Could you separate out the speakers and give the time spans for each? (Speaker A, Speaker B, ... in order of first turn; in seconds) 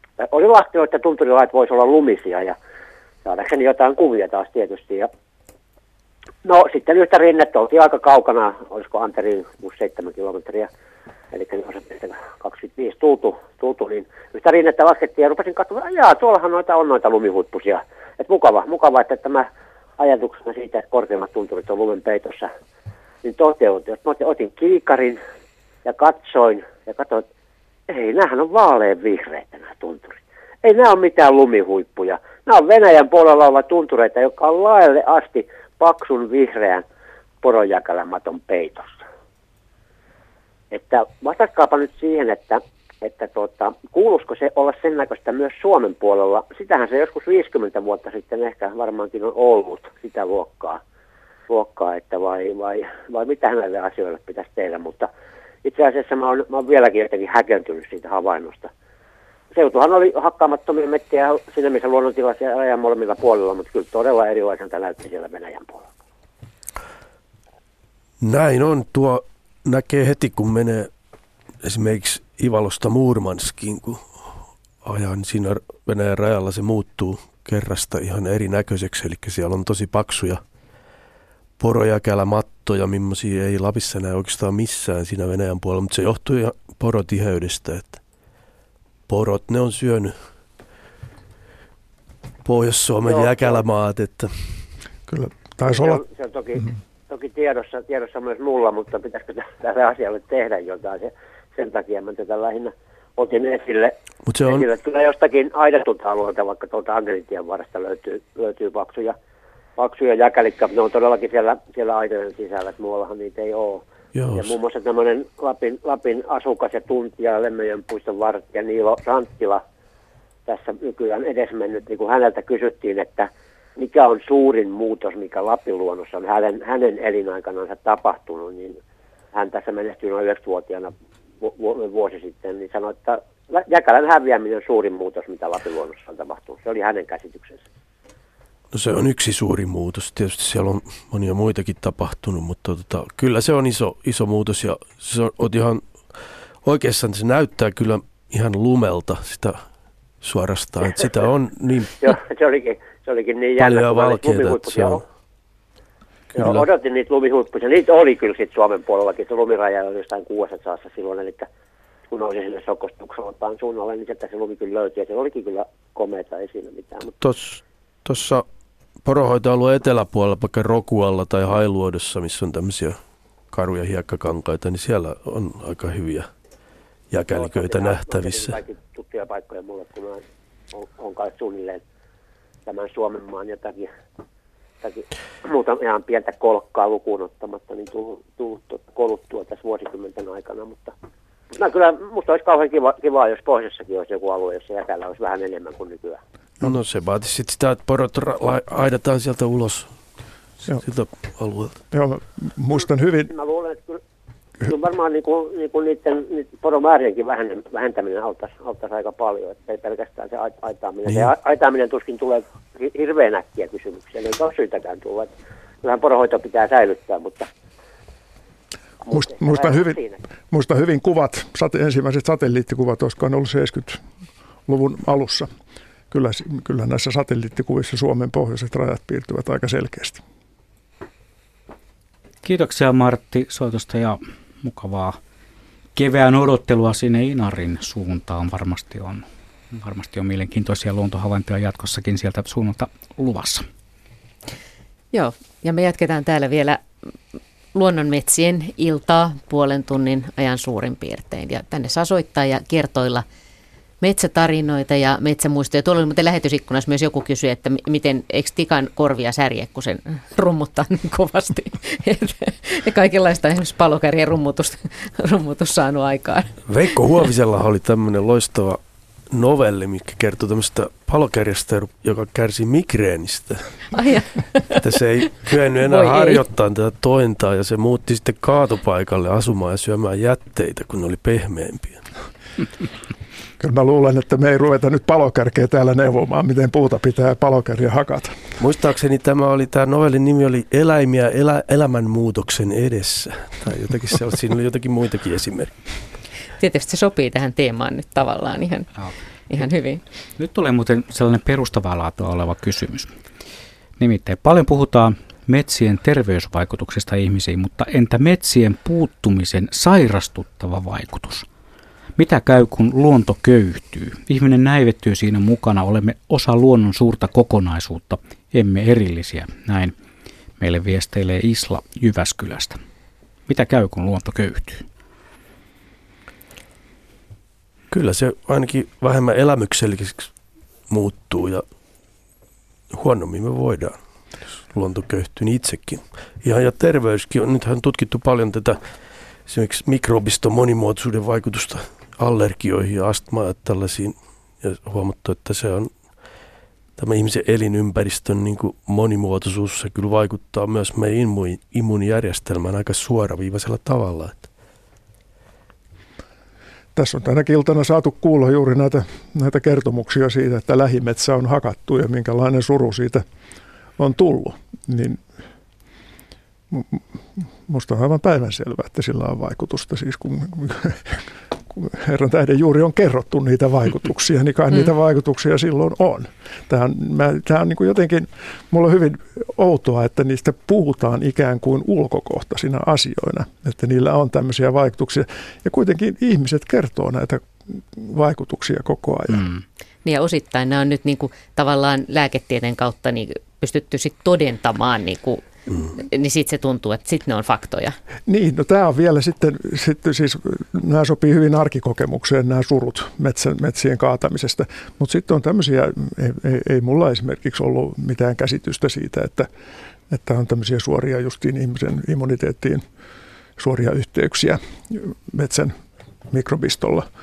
Speaker A: 0.2-2.6, 3.2-5.1, 6.4-10.7, 11.3-19.5, 20.0-22.5, 23.2-25.2, 25.9-27.3, 27.9-36.8, 37.4-39.0, 40.7-50.8, 51.5-55.1, 55.6-58.7, 59.5-65.9, 93.0-93.6, 95.6-109.2, 109.8-119.6, 120.5-128.8, 129.3-137.6, 152.0-155.0, 156.4-161.5, 162.1-167.1, 177.3-181.8, 182.7-183.9, 184.8-190.9, 191.5-196.2, 203.3-204.0, 204.6-215.3, 215.8-217.5, 219.0-220.2
Speaker B: 68.2-70.9, 71.6-74.1, 74.8-80.4, 81.6-88.0, 89.1-90.2, 92.4-94.6, 104.3-104.7, 114.2-114.5, 138.7-145.8, 146.6-149.6, 150.2-152.2, 153.6-155.0, 156.3-156.7, 167.2-168.4, 169.0-173.0, 173.5-176.3, 177.1-178.6, 196.6-199.9, 200.7-201.8, 266.7-268.8, 269.3-273.7, 274.8-282.0, 288.6-295.8, 327.9-330.3, 330.9-331.6, 332.9-334.0, 334.6-338.8, 339.5-345.9, 347.0-354.5
Speaker C: 95.1-96.0, 201.9-203.3, 219.1-224.0, 224.7-225.5, 226.1-230.2, 283.6-288.4, 356.9-363.2, 364.0-365.2, 366.7-389.5, 398.3-409.5, 410.1-412.8, 413.6-415.8, 416.3-417.1
Speaker D: 232.4-235.2, 236.0-243.7, 300.4-303.1, 304.0-311.5, 312.2-319.9, 320.6-322.8, 323.5-324.9
Speaker E: 245.1-246.8, 247.7-253.3, 254.0-266.6, 273.9-274.8, 275.8-276.4, 296.6-298.9, 299.5-300.0, 390.1-397.9